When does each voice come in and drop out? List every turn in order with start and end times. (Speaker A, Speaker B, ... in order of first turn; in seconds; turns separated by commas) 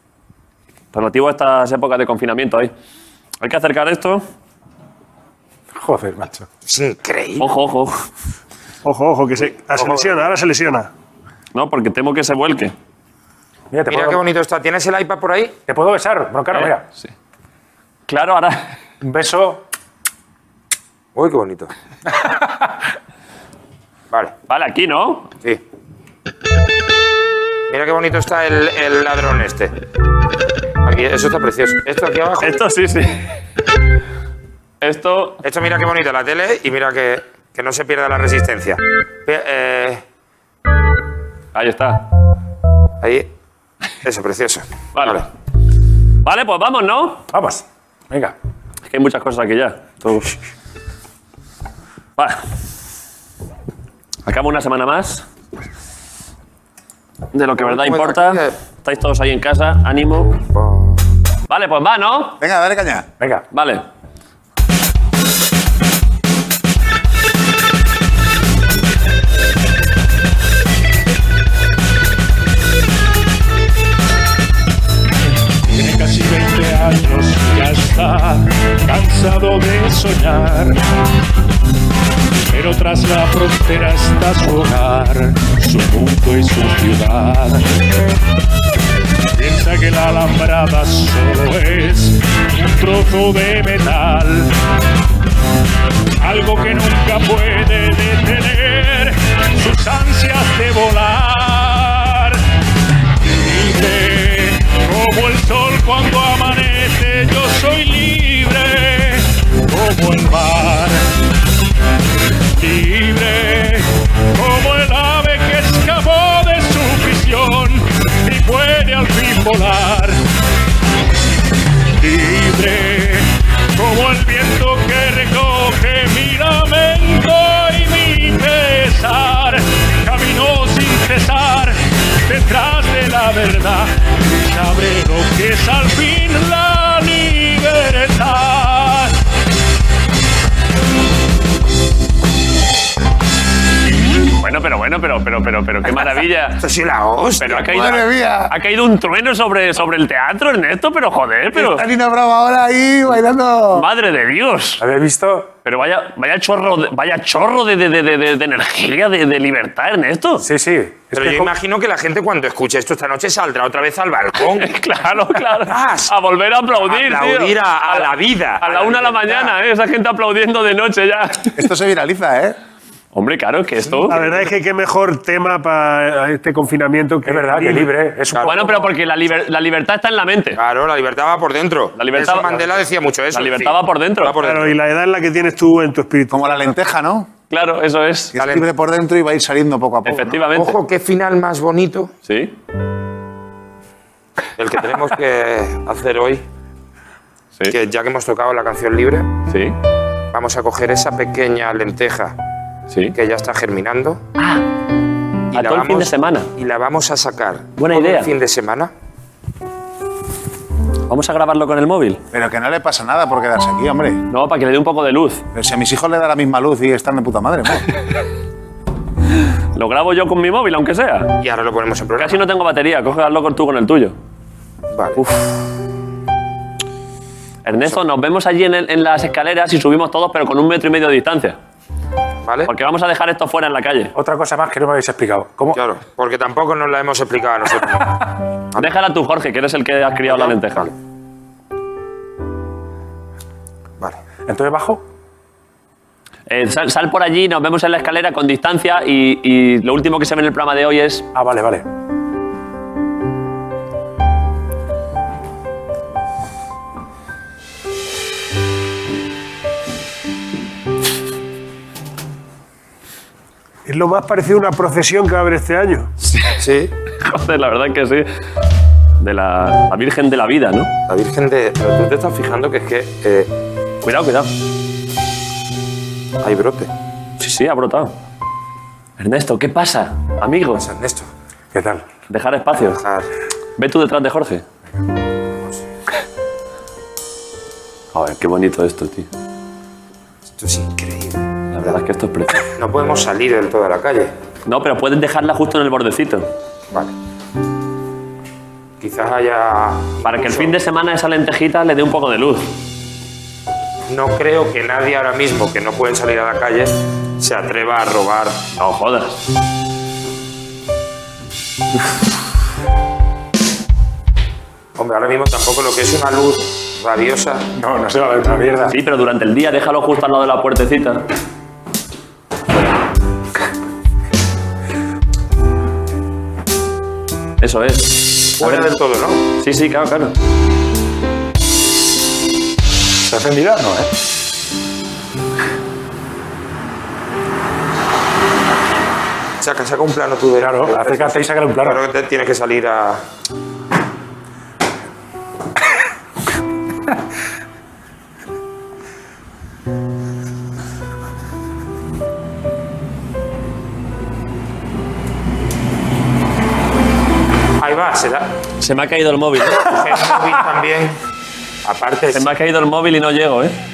Speaker A: 0.9-2.7, Speaker A: 3.4-4.2, Speaker B: 5.7-6.5, Speaker C: 6.7-7.5, Speaker A: 7.4-8.0, Speaker D: 8.8-10.9, Speaker C: 9.8-10.2, Speaker A: 11.5-12.7, Speaker B: 13.7-14.2, Speaker C: 13.9-15.6, Speaker B: 15.7-16.8, Speaker A: 16.5-17.1, Speaker A: 18.1-18.8, Speaker B: 19.0-19.6, Speaker C: 21.1-21.7, Speaker B: 22.2-22.7, Speaker A: 24.5-25.3, Speaker C: 27.7-29.7, Speaker C: 30.8-32.6, Speaker A: 32.4-33.3, Speaker A: 34.8-35.4, Speaker C: 35.4-40.0, Speaker A: 41.5-42.1, Speaker C: 43.0-43.3, Speaker C: 44.0-45.3, Speaker A: 45.0-45.2, Speaker A: 46.2-47.2, Speaker B: 47.3-48.4, Speaker A: 48.9-50.4, Speaker A: 54.3-55.2, Speaker A: 57.3-60.4, Speaker C: 57.6-58.5, Speaker C: 60.5-61.0, Speaker A: 61.5-62.4, Speaker E: 62.4-63.1, Speaker A: 63.5-63.9, Speaker F: 75.7-80.8, Speaker F: 82.5-87.6, Speaker F: 89.3-94.5, Speaker F: 96.2-102.4, Speaker F: 103.2-111.0, Speaker F: 112.6-120.2, Speaker F: 122.0-139.1, Speaker A: 144.4-146.7, Speaker C: 146.6-147.8, Speaker A: 147.4-151.8, Speaker E: 147.7-148.6, Speaker E: 151.5-153.9, Speaker A: 153.7-154.8, Speaker B: 154.8-155.5, Speaker A: 155.7-160.5, Speaker B: 160.4-161.5, Speaker C: 161.1-164.7, Speaker A: 164.4-171.5, Speaker C: 165.7-166.1, Speaker C: 166.7-169.5, Speaker E: 171.6-172.6, Speaker A: 173.1-174.2, Speaker C: 173.8-174.3, Speaker D: 174.1-177.9, Speaker B: 177.2-178.7, Speaker C: 178.3-178.8, Speaker A: 178.4-180.6, Speaker C: 180.6-184.8, Speaker A: 182.0-182.7, Speaker A: 183.3-184.4, Speaker D: 184.4-186.4, Speaker E: 186.3-187.3, Speaker A: 187.5-188.3, Speaker E: 188.3-190.4, Speaker C: 188.4-188.7, Speaker A: 190.1-190.8, Speaker C: 190.5-192.1, Speaker A: 192.2-192.5, Speaker C: 194.6-196.4, Speaker C: 197.7-199.3, Speaker A: 199.5-199.8, Speaker C: 200.3-202.4, Speaker C: 203.2-204.2, Speaker C: 205.5-208.9, Speaker A: 205.5-206.5, Speaker A: 207.8-208.3, Speaker A: 211.1-212.2, Speaker E: 212.3-214.2, Speaker A: 214.3-215.4, Speaker E: 215.6-217.8, Speaker A: 219.8-221.3, Speaker C: 221.4-222.4, Speaker A: 222.2-224.2, Speaker C: 224.9-225.2, Speaker A: 225.2-225.6, Speaker A: 227.7-231.6, Speaker C: 232.4-232.7, Speaker A: 232.7-234.1, Speaker B: 234.2-235.8, Speaker C: 235.7-238.9, Speaker A: 238.8-240.9, Speaker C: 240.3-240.9, Speaker B: 244.5-245.0, Speaker A: 246.5-251.3, Speaker B: 251.3-251.8, Speaker D: 263.9-266.1, Speaker C: 266.6-266.9, Speaker A: 267.2-268.3, Speaker A: 269.2-270.9, Speaker C: 271.1-273.5, Speaker A: 274.0-274.5, Speaker C: 276.4-276.9, Speaker A: 277.4-278.1, Speaker A: 279.2-280.9, Speaker C: 280.7-281.3, Speaker B: 281.7-282.1, Speaker A: 282.3-283.0, Speaker C: 282.9-283.3, Speaker A: 283.8-284.6, Speaker A: 288.1-289.3, Speaker C: 290.6-292.0, Speaker A: 291.7-292.7, Speaker C: 292.8-294.3, Speaker A: 294.7-296.5, Speaker C: 299.0-300.7, Speaker A: 300.2-302.8, Speaker C: 304.1-308.6, Speaker A: 308.8-309.4, Speaker C: 315.0-317.6, Speaker B: 317.8-319.0, Speaker A: 318.9-321.2, Speaker A: 327.6-328.9, Speaker C: 328.6-329.4, Speaker A: 329.6-330.3, Speaker B: 333.3-334.1, Speaker C: 339.6-343.2, Speaker B: 340.6-342.0, Speaker C: 357.8-358.5, Speaker A: 358.8-359.9, Speaker C: 359.7-361.2, Speaker C: 361.9-362.5, Speaker A: 362.3-363.8